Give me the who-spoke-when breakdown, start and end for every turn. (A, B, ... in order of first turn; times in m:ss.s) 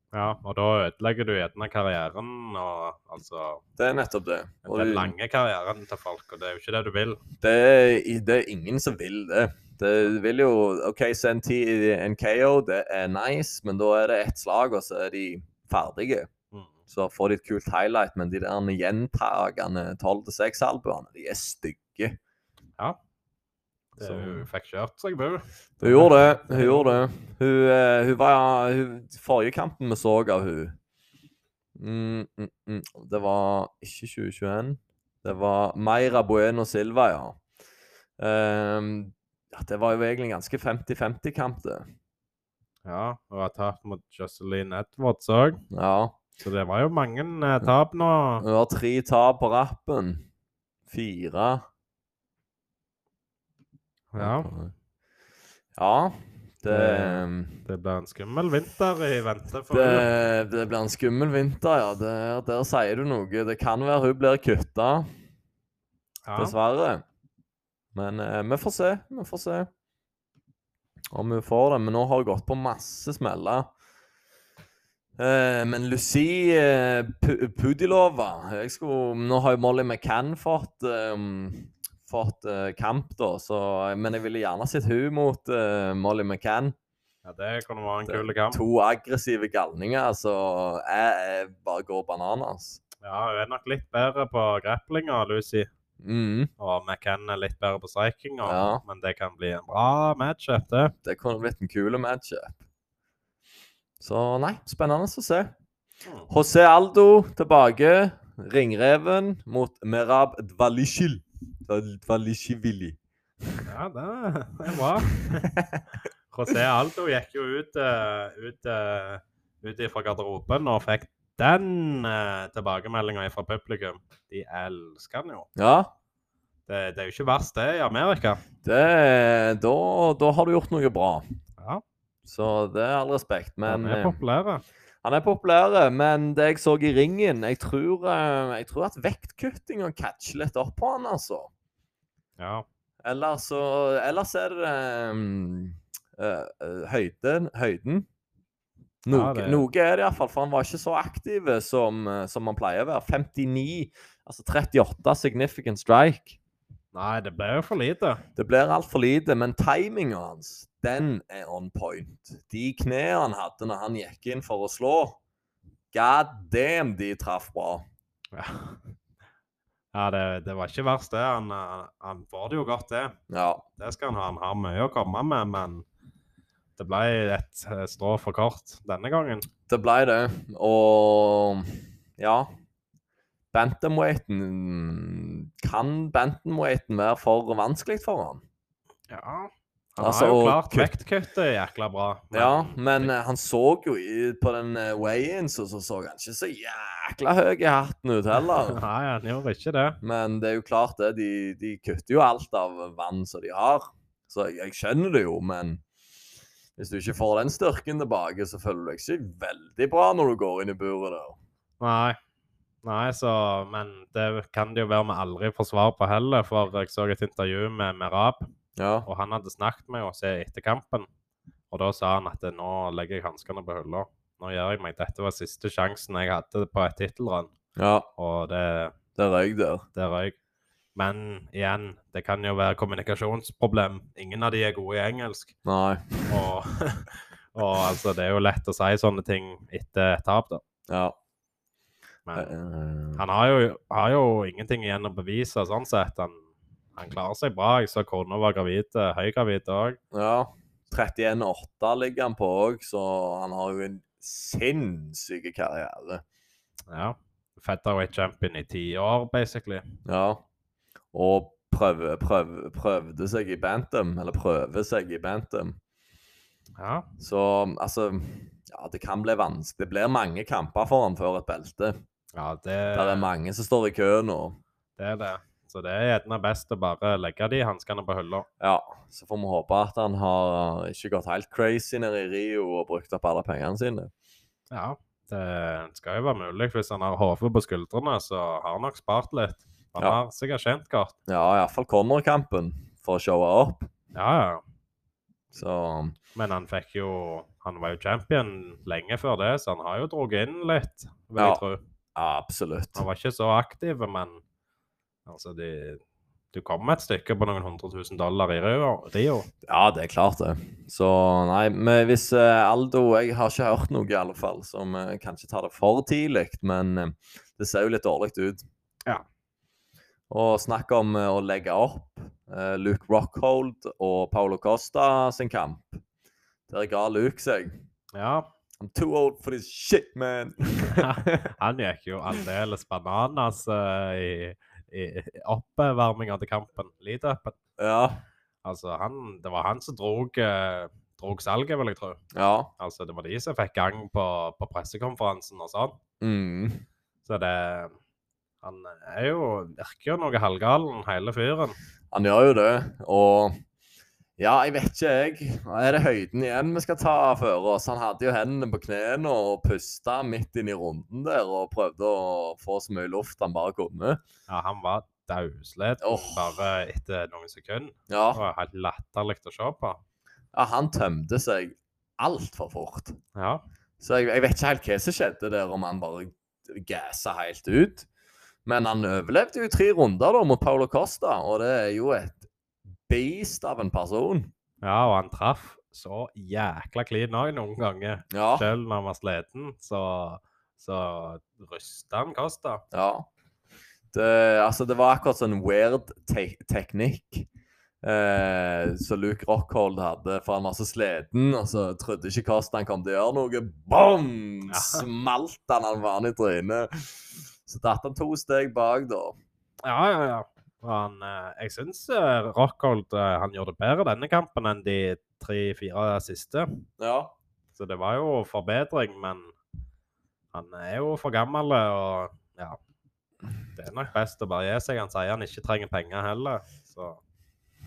0:00.1-0:03.6 A
0:03.8-0:05.1 B
0:04.6-0:07.2 A
0:07.4-0:16.3 B
0:16.9-0:22.2 B
0:24.0-0:27.0 A
0:24.0-0:24.4 B
0:25.8-0:30.8 B
0:31.8-0:37.4 B
0:38.2-0:41.9 B
0:42.8-0:45.6 A
0:45.7-0:46.2 B
0:46.4-0:48.4 A
0:48.4-0:50.2 B
0:50.9-0:51.6 B
0:54.1-0:54.5 A
0:54.2-0:54.7 B
0:55.8-0:57.6 B
0:56.7-1:00.1 A
0:59.7-1:05.1 B
1:06.2-1:06.5 A
1:06.4-1:07.0 B
1:07.9-1:09.7 B
1:11.1-1:13.7 B
1:15.2-1:26.7 B
1:27.2-1:28.6 A
1:28.1-1:32.8 B
1:33.0-1:35.7 A
1:36.0-1:36.5 B
1:36.6-1:40.9 A
1:38.4-1:38.8 B
1:41.0-1:42.6 B
1:44.0-1:45.5 B
1:46.3-1:53.0 B
1:53.6-1:55.5 A
1:55.3-1:55.8 B
1:56.3-2:05.5 A
2:05.6-2:05.9 B
2:06.7-2:08.4 A
2:08.6-2:11.2 B
2:11.6-2:11.8 A
2:12.2-2:14.2 B
2:13.7-2:14.6 A
2:15.0-2:21.5 B
2:22.4-2:22.6 A
2:23.0-2:28.1 B
2:29.0-2:36.4 B
2:29.1-2:29.6 A
2:36.9-2:38.2 A
2:38.4-2:45.2 B
2:45.9-2:47.8 B
2:48.3-2:48.8 A
2:49.9-2:53.2 A
2:53.3-2:53.6 B
2:53.8-2:55.8 A
2:56.8-2:59.4 A
2:59.7-3:02.5 B
3:03.5-3:08.4 B
3:09.1-3:13.1 A
3:10.0-3:10.9 B
3:12.3-3:18.8 B
3:18.4-3:20.0 A
3:20.0-3:25.8 B
3:26.8-3:31.4 B
3:31.8-3:32.2 A
3:32.8-3:38.5 A
3:38.8-3:39.1 B
3:39.0-3:41.1 A
3:41.7-3:47.5 A
3:47.8-3:48.1 B
3:48.2-3:48.9 A
3:49.2-3:49.8 B
3:50.0-3:50.4 A
3:50.9-3:55.5 A
3:55.6-3:56.4 B
3:56.3-4:00.6 A
4:00.9-4:01.2 B
4:02.3-4:02.5 A
4:02.3-4:03.2 B
4:03.2-4:06.4 A
4:07.0-4:10.0 A
4:10.1-4:16.2 B
4:16.9-4:19.8 A
4:20.0-4:20.4 B
4:21.1-4:25.8 B
4:26.8-4:27.1 A
4:27.2-4:31.9 B
4:32.3-4:33.3 A
4:32.9-4:34.6 B
4:35.0-4:38.5 A
4:38.6-4:44.1 B
4:44.7-4:51.1 A
4:51.3-4:53.9 B
4:54.1-4:54.6 A
4:55.5-4:56.2 B
4:56.3-5:01.8 A
5:01.4-5:01.6 B
5:02.2-5:03.0 B
5:02.9-5:04.4 A
5:05.2-5:06.0 A
5:06.5-5:09.5 A
5:09.6-5:18.6 B
5:20.3-5:26.0 B
5:26.7-5:27.8 B
5:28.1-5:28.5 A
5:28.8-5:31.5 B
5:30.9-5:37.6 A
5:37.8-5:38.2 B
5:38.6-5:42.2 A
5:42.3-5:42.7 B
5:42.8-5:46.0 A
5:46.2-5:46.8 B
5:47.2-5:47.9 A
5:48.6-5:51.8 A
5:52.1-5:53.6 B
5:54.4-6:04.2 B
6:04.5-6:10.0 A
6:06.0-6:06.5 B
6:08.1-6:08.4 B
6:10.5-6:13.2 B
6:13.3-6:13.6 A
6:14.0-6:18.1 B
6:18.6-6:22.4 B
6:23.1-6:24.5 B
6:24.8-6:32.8 A
6:28.3-6:28.7 B
6:32.9-6:33.3 B
6:34.1-6:37.5 B
6:38.0-6:49.4 B
6:44.7-6:45.0 A
6:49.8-6:56.8 A
6:57.0-6:57.3 B
6:57.8-6:59.5 A
7:00.5-7:02.8 A
7:03.7-7:07.2 A